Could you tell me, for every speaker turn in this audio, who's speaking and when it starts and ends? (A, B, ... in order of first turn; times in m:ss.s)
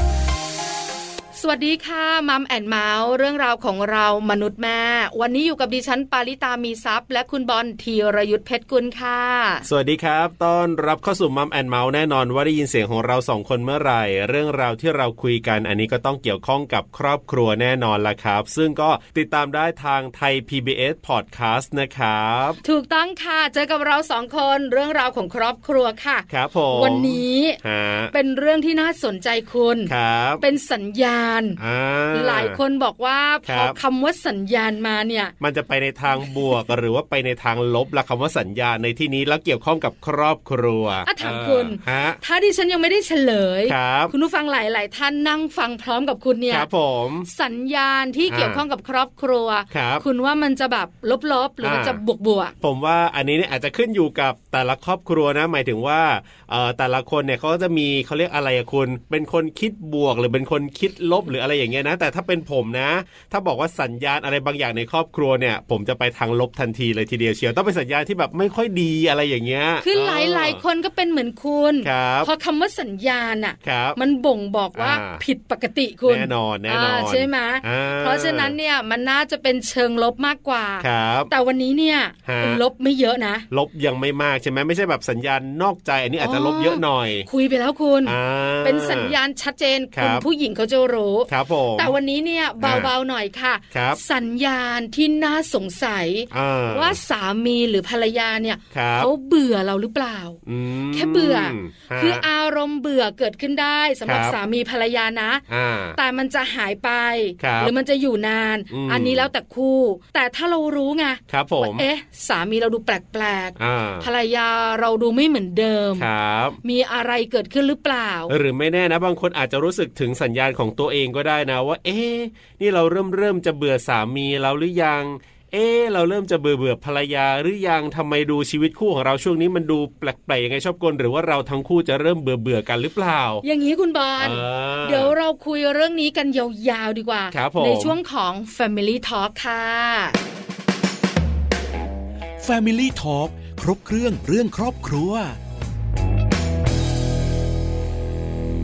0:01.3-0:09.6 A
0:09.6-0:22.6 B
0:22.6-0:27.6 A
0:26.3-0:28.1 B
0:28.1-0:31.6 A
0:29.9-0:30.4 B
0:31.6-0:32.6 B
0:32.1-0:35.3 A
0:33.4-0:33.8 B
0:35.4-0:42.2 B
0:36.1-0:36.5 A
0:41.0-0:46.7 A
0:43.7-0:44.1 B
0:46.5-0:47.3 B
0:47.2-0:52.5 A
0:48.3-0:48.6 B
0:49.7-0:50.0 B
0:51.6-0:52.0 B
0:52.6-1:10.6 B
1:09.8-1:23.4 A
1:11.8-1:12.3 B
1:13.6-1:14.0 B
1:14.7-1:15.2 B
1:16.0-1:18.6 B
1:20.8-1:21.3 B
1:22.2-1:22.6 B
1:23.5-1:27.3 B
1:26.2-1:40.4 A
1:28.0-1:29.2 B
1:29.9-1:30.2 B
1:31.3-1:32.0 B
1:32.6-1:32.9 B
1:33.7-1:34.0 B
1:36.3-1:37.0 B
1:38.7-1:39.1 B
1:40.4-1:42.2 B
1:40.9-1:45.4 A
1:44.0-1:44.4 B
1:45.5-1:46.0 B
1:46.0-1:56.1 A
1:47.4-1:47.7 B
1:48.7-1:49.3 B
1:51.3-1:51.8 B
1:53.6-1:54.1 B
1:56.0-1:56.6 B
1:56.6-1:58.3 A
1:58.3-2:13.4 B
2:13.4-2:20.2 A
2:14.2-2:15.1 B
2:17.3-2:18.0 B
2:22.4-2:25.4 C